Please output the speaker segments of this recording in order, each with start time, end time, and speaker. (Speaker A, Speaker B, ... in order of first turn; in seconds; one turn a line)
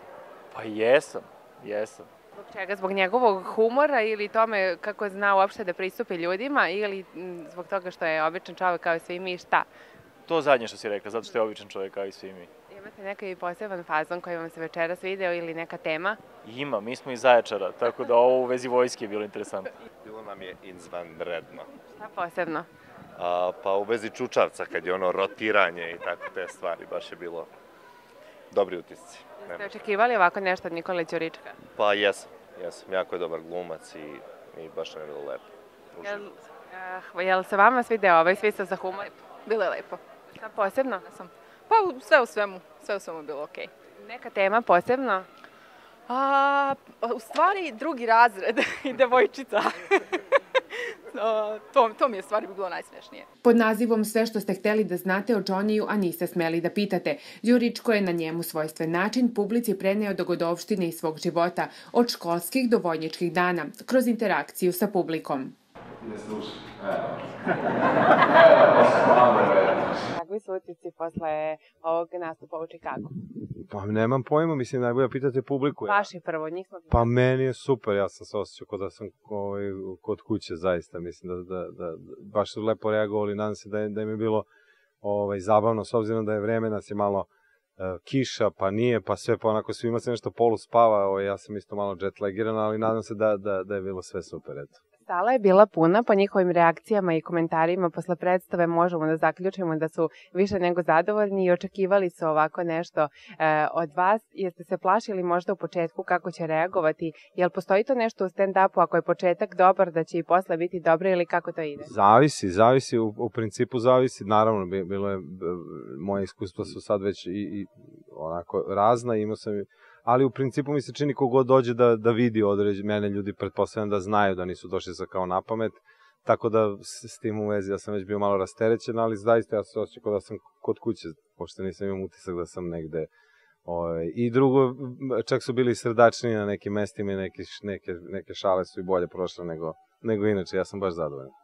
Speaker A: 0.5-2.1
Speaker B: 2.3-9.7
Speaker A: 10.3-12.5
Speaker B: 12.7-16.2
Speaker A: 16.4-19.7
Speaker C: 20.0-21.7
Speaker B: 22.0-22.7
Speaker C: 23.2-27.5
Speaker C: 28.5-29.7
Speaker B: 29.5-31.6
Speaker C: 31.8-36.3
Speaker B: 36.0-39.1
Speaker D: 39.5-40.0
Speaker B: 40.3-41.0
Speaker D: 41.0-43.7
Speaker B: 44.0-45.3
Speaker D: 46.1-53.3
Speaker E: 53.4-65.5
Speaker F: 66.0-67.4
Speaker F: 68.2-69.9
Speaker B: 70.1-73.1
Speaker F: 73.7-76.1
Speaker B: 75.9-77.1
Speaker F: 76.9-84.5
Speaker F: 85.0-94.8
Speaker B: 95.1-111.9
Speaker F: 111.8-133.1
Speaker F: 133.7-141.3